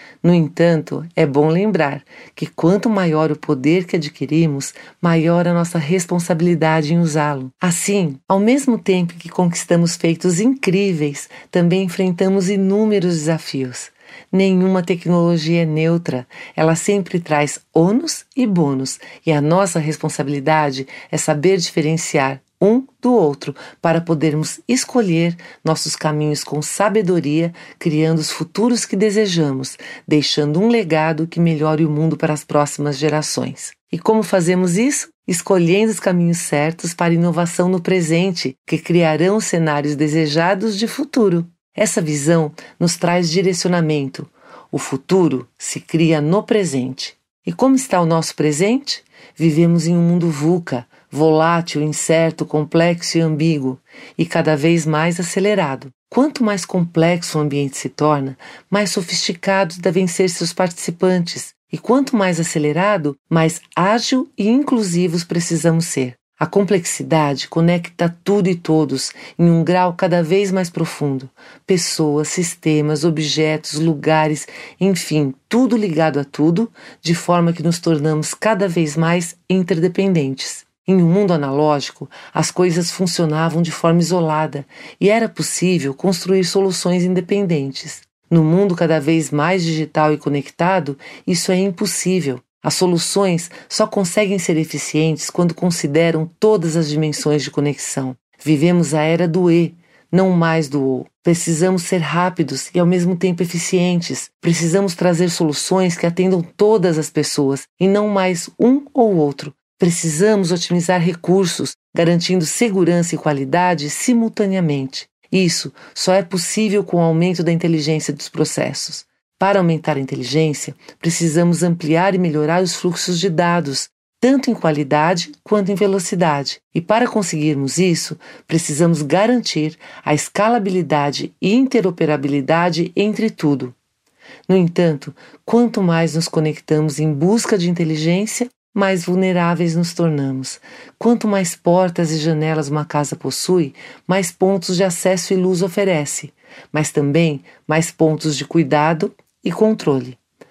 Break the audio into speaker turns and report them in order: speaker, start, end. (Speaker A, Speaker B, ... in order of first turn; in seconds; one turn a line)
Speaker A: 0.2-133.8
Speaker A: 134.5-150.2